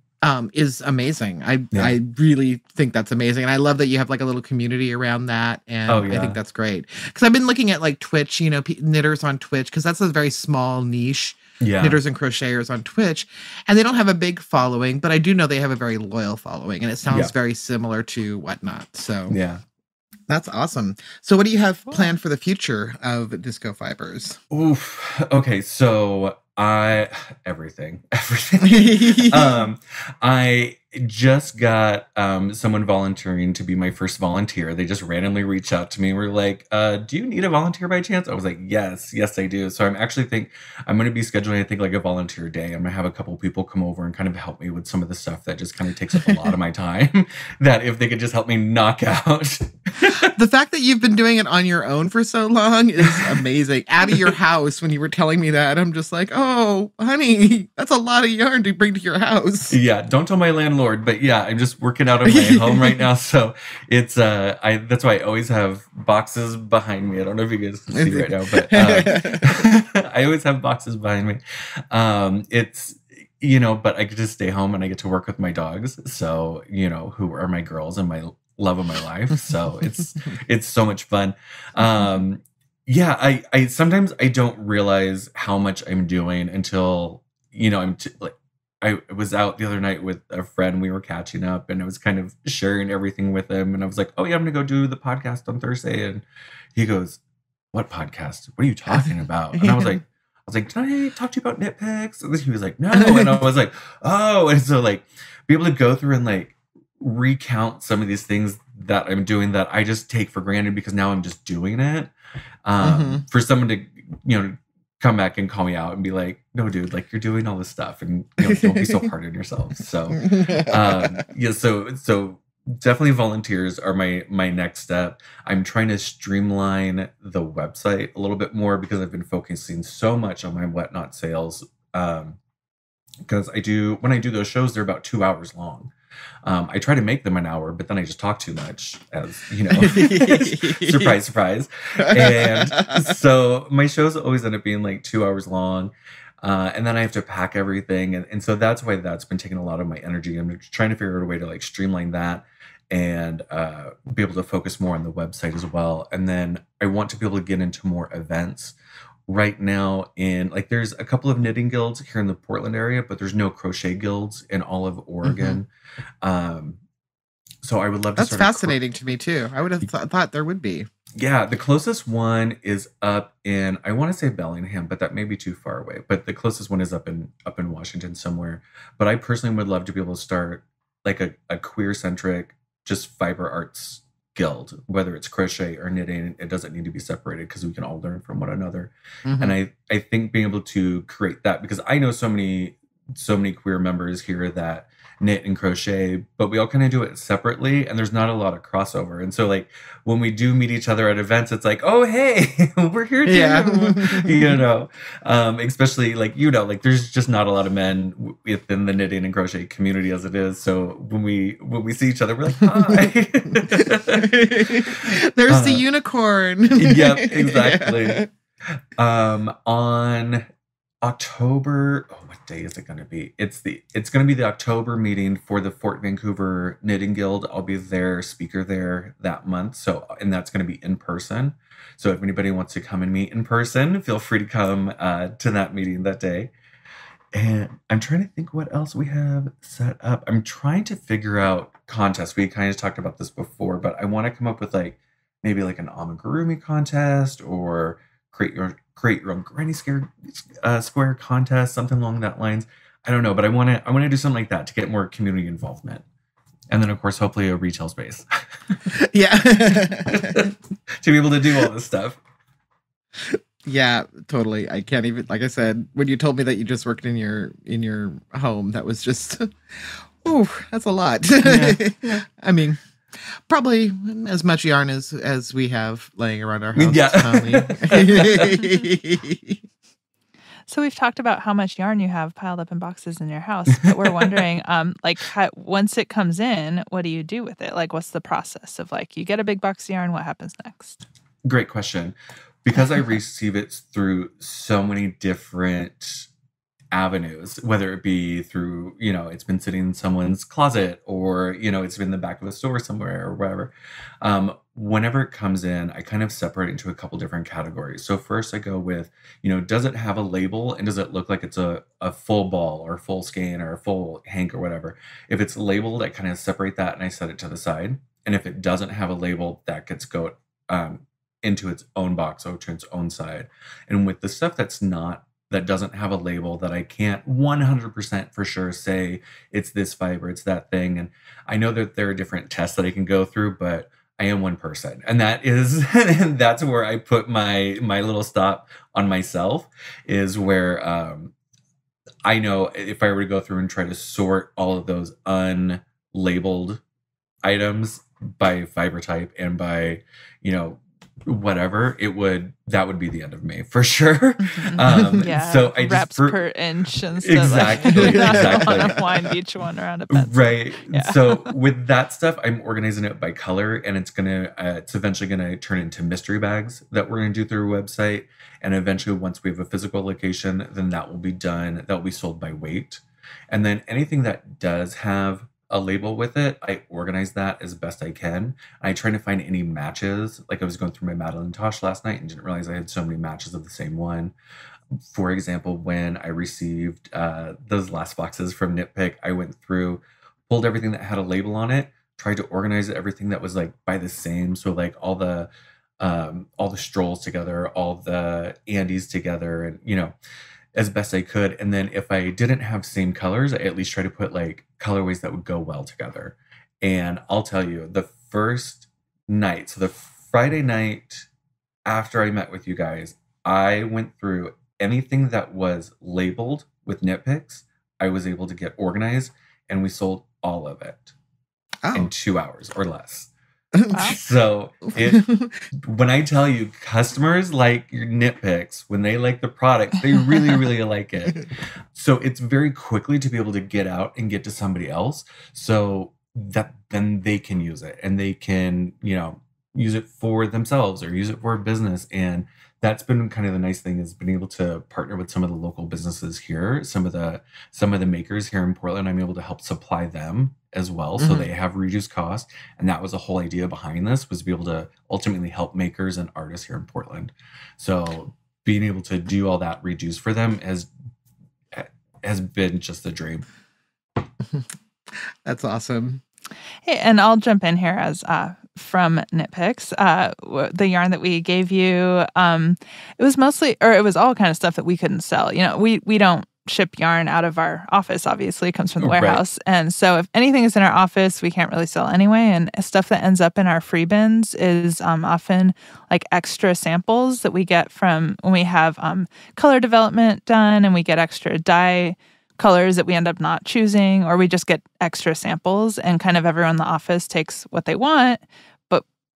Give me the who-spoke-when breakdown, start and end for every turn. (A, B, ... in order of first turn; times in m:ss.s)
0:00.2-0:19.4 A
0:05.9-0:06.4 B
0:11.6-0:12.0 B
0:19.3-0:19.6 B
0:20.3-0:24.4 A
0:24.5-0:50.3 B
0:28.6-0:29.6 A
0:50.0-0:59.8 A
0:59.7-1:11.4 B
1:02.2-1:03.0 A
1:07.9-1:09.7 A
1:11.9-1:37.2 B
1:37.7-1:52.1 B
1:39.5-1:40.0 A
1:52.6-2:12.4 B
1:52.8-1:53.2 A
1:58.4-1:59.1 A
2:00.1-2:01.2 A
2:13.2-2:15.9 B
2:16.4-2:25.9 B
2:19.7-2:21.2 A
2:22.0-2:23.1 A
2:26.4-2:38.8 B
2:39.3-2:45.7 B
2:45.2-2:45.6 A
2:46.2-2:46.8 B
2:47.6-2:48.7 B
2:48.2-2:50.9 A
2:51.2-3:35.8 B
3:09.2-3:09.6 A
3:23.2-3:24.6 A
3:34.1-3:38.3 A
3:36.7-3:38.2 B
3:39.0-3:40.5 B
3:41.0-3:56.5 B
3:57.3-4:16.0 B
4:16.7-4:18.8 B
4:18.9-4:20.5 A
4:20.1-4:22.2 B
4:23.2-4:32.8 A
4:31.4-4:32.2 B
4:33.5-4:39.6 A
4:36.7-4:38.6 B
4:40.7-4:51.0 C
4:51.4-4:56.3 B
4:56.9-5:41.3 B
5:42.2-5:46.8 B
5:47.4-5:56.4 B
5:54.4-6:01.4 C
5:54.8-5:55.2 A
5:57.2-5:59.0 B
5:57.9-5:59.0 A
6:00.1-6:24.3 B
6:25.0-6:40.1 B
6:40.7-6:51.3 B
6:51.9-7:01.1 B
7:01.8-7:02.1 A
7:01.9-7:03.3 B
7:03.7-7:04.2 A
7:03.9-7:04.2 C
7:04.0-7:05.3 B
7:05.0-7:05.5 A
7:05.9-7:40.9 B
7:31.2-7:31.5 A
7:41.7-7:43.4 B
7:44.4-7:46.2 A
7:46.8-8:19.0 C
7:59.0-7:59.4 B